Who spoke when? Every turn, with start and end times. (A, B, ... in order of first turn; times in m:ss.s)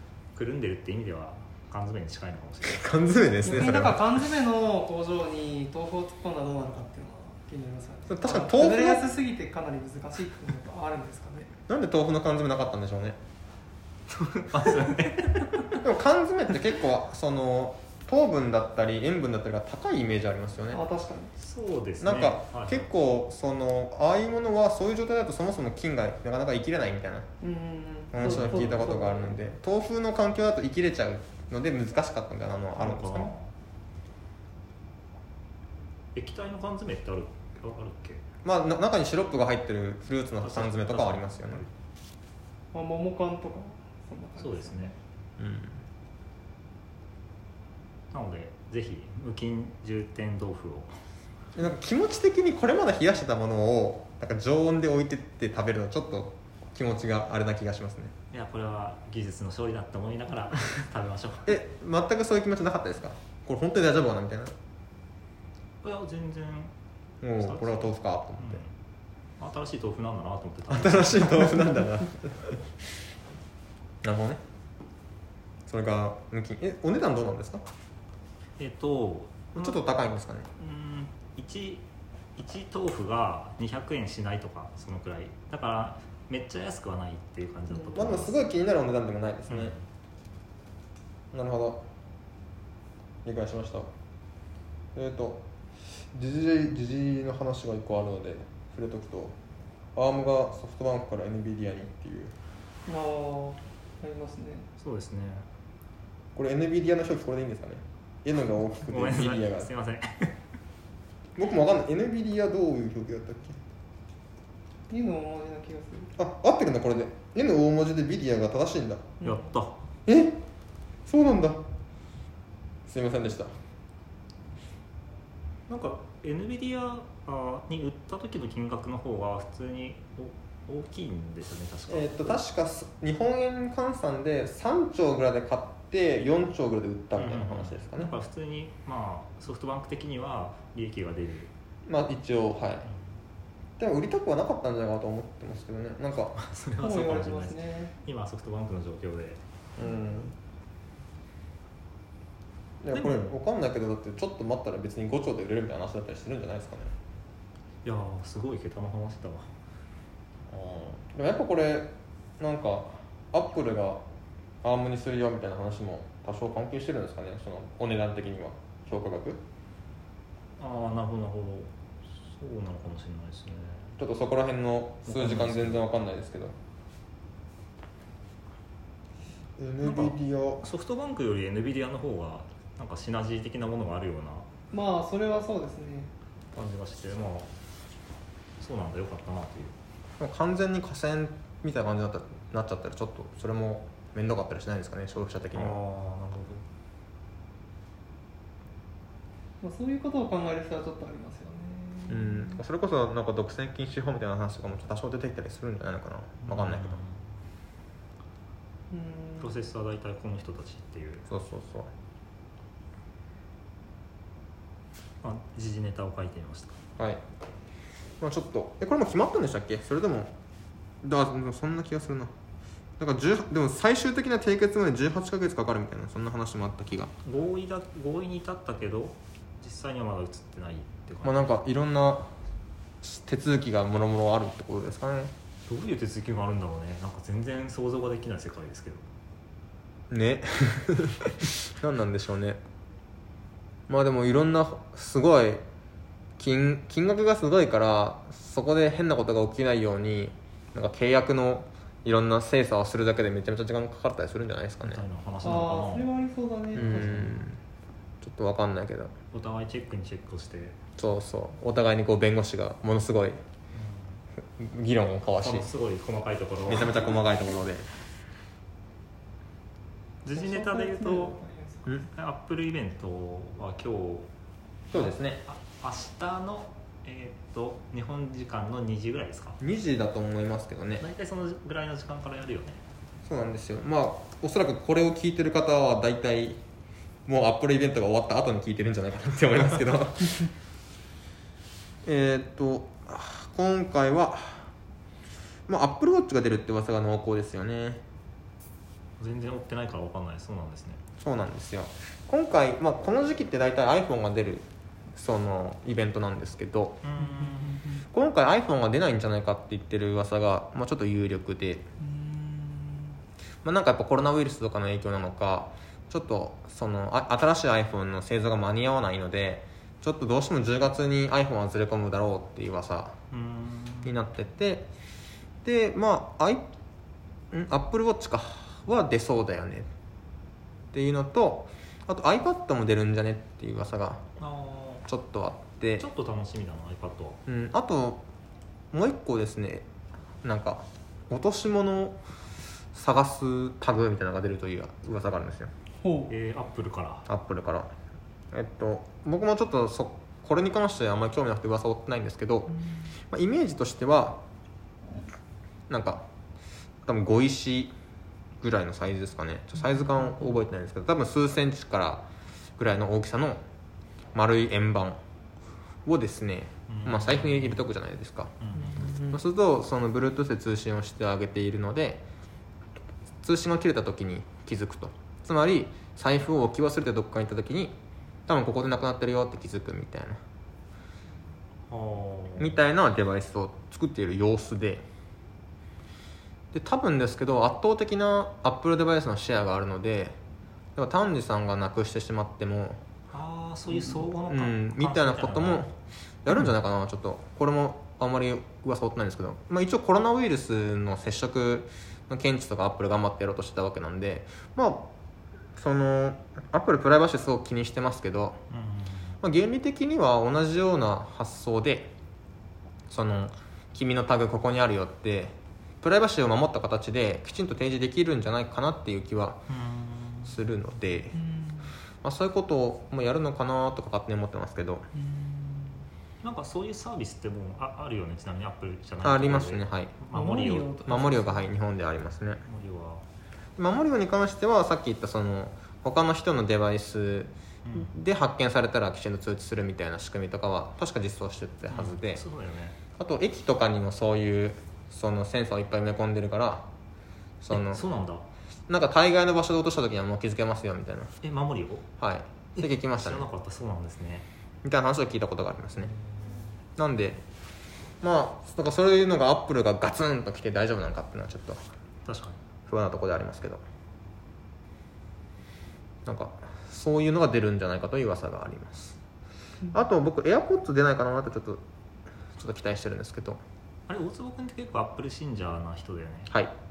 0:00.3-0:02.9 A
0:02.6-0:04.2 B
0:03.4-0:11.5 C
0:08.1-0:09.1 B
0:11.7-0:13.2 B
0:14.1-0:15.8 A
0:15.8-0:20.8 B
0:20.7-0:21.3 C
0:21.4-0:22.9 A
0:22.0-0:27.3 B
0:27.4-0:29.3 C
0:28.1-0:33.3 B
0:28.2-0:28.9 A
0:32.8-0:33.5 A
0:36.1-0:38.2 A
0:38.4-0:41.6 B
0:40.4-0:41.7 A
0:42.7-0:44.9 C
0:44.4-0:44.9 A
0:45.4-0:45.8 B
0:48.1-0:51.0 A
0:51.6-0:58.1 B
0:58.3-1:01.6 A
1:01.4-1:04.5 B
1:05.8-1:06.7 A
1:07.2-1:08.6 B
1:07.4-1:08.7 A
1:09.4-1:11.5 A
1:10.7-1:12.6 B
1:14.0-1:14.4 B
1:15.7-1:17.6 B
1:18.6-1:19.8 A
1:19.6-1:20.5 B
1:20.5-1:21.8 A
1:22.4-1:28.4 A
1:27.7-1:28.2 C
1:27.9-1:29.7 B
1:29.5-1:29.8 A
1:31.3-1:31.8 B
1:33.2-1:33.9 B
1:34.9-1:35.4 B
1:36.1-1:39.3 B
1:39.9-1:42.3 B
1:42.8-1:44.7 C
1:44.8-1:45.5 A
1:46.3-1:49.7 B
1:48.8-1:50.4 A
1:51.4-1:53.6 B
1:54.9-1:56.1 C
1:56.2-1:59.0 B
1:59.2-1:59.5 C
1:59.2-1:59.8 A
2:00.0-2:00.4 B
2:01.0-2:01.6 B
2:02.8-2:03.5 B
2:05.7-2:12.4 A
2:11.9-2:18.1 B
2:17.2-2:21.5 A
2:21.9-2:22.9 B
2:23.8-2:26.3 B
2:26.3-2:29.4 A
2:26.8-2:27.9 C
2:29.8-2:30.3 B
2:29.8-2:30.1 C
2:32.8-2:36.9 B
2:32.9-2:33.3 A
2:37.8-2:39.5 A
2:40.5-2:44.0 B
2:44.6-2:49.4 B
2:50.6-2:54.0 A
2:54.0-2:56.5 B
2:55.0-2:55.8 A
2:59.6-3:00.6 B
2:59.8-3:04.5 A
3:04.7-3:06.1 C
3:06.5-3:07.5 A
3:08.6-3:09.8 A
3:10.2-3:15.8 B
3:15.5-3:16.6 A
3:19.6-3:22.6 C
3:22.1-3:27.0 B
3:26.4-3:27.2 A
3:28.9-3:29.6 C
3:29.4-3:31.2 A
3:31.3-3:31.9 B
3:35.2-3:36.8 A
3:38.2-3:40.3 B
3:41.0-3:42.3 B
3:43.0-3:47.1 B
3:47.2-3:51.5 A
3:51.2-3:52.3 B
3:53.0-3:55.3 B
3:55.7-3:59.0 A
4:00.1-4:02.6 B
4:03.9-4:05.6 B
4:06.4-4:15.0 B
4:14.8-4:16.1 A
4:15.4-4:17.4 C
4:16.7-4:17.6 B
4:18.2-4:19.1 B
4:19.3-4:20.8 A
4:21.0-4:23.4 B
4:23.7-4:24.2 A
4:24.6-4:25.7 B
4:25.4-4:27.0 A
4:26.7-4:27.9 B
4:30.2-4:31.4 A
4:30.3-4:32.0 C
4:32.0-4:34.3 A
4:34.9-4:35.4 B
4:34.9-4:39.6 A
4:39.6-4:41.0 B
4:41.0-4:42.8 A
4:43.2-4:46.6 B
4:47.2-4:50.5 B
4:52.0-4:54.7 B
4:55.7-4:58.0 B
4:59.2-5:01.0 A
5:01.2-5:07.0 B
5:07.0-5:07.9 A
5:07.2-5:08.0 C
5:08.1-5:11.8 B
5:12.0-5:13.2 C
5:13.6-5:23.1 B
5:23.3-5:24.2 A
5:24.0-5:24.9 B
5:25.6-5:26.6 B
5:27.5-5:29.9 B
5:30.9-5:34.2 B
5:34.4-5:35.0 A
5:35.0-5:36.1 B
5:36.0-5:37.4 A
5:37.4-5:38.2 B
5:38.9-5:39.8 B
5:40.4-5:42.2 B
5:42.9-5:45.7 B
5:46.0-5:46.3 C
5:46.3-5:47.2 A
5:47.3-5:47.9 B
5:48.5-5:52.7 B
5:53.3-5:54.4 B
5:55.9-5:56.2 B
5:57.0-5:57.9 B
5:58.6-6:02.2 B
6:02.8-6:03.6 B
6:04.3-6:05.2 B
6:06.0-6:08.5 B
6:06.9-6:07.8 A
6:08.6-6:09.1 A
6:08.8-6:09.4 C
6:09.2-6:12.2 B
6:13.4-6:17.9 B
6:18.5-6:20.4 B
6:21.9-6:22.8 A
6:22.6-6:25.0 B
6:26.7-6:30.4 B
6:31.0-6:33.0 B
6:33.3-6:35.9 A
6:34.5-6:35.9 B
6:36.4-6:45.1 B
6:45.8-6:48.6 B
6:48.7-6:49.4 A
6:49.4-6:52.1 B
6:53.1-6:59.6 B
6:59.7-7:00.6 A
7:00.4-7:01.4 B
7:01.3-7:01.9 C
7:02.2-7:05.0 B
7:05.1-7:06.0 C
7:06.4-7:11.0 A
7:09.2-7:10.2 B
7:10.3-7:11.6 C
7:11.0-7:12.6 B
7:12.6-7:13.2 A
7:13.8-7:22.4 B
7:17.8-7:18.1 A
7:21.9-7:23.0 A
7:23.2-7:26.9 B
7:27.6-7:28.0 B
7:27.7-7:28.4 A
7:28.9-7:31.3 B
7:31.4-7:32.1 A
7:32.2-7:33.4 B
7:32.8-7:34.5 A
7:34.8-7:36.1 B
7:36.0-7:36.7 A
7:37.0-7:37.4 B
7:38.2-7:41.8 B
7:42.2-7:42.6 A
7:42.9-7:43.8 B
7:46.2-7:49.2 B
7:49.9-7:51.8 B
7:52.6-7:53.6 B
7:54.1-7:56.5 A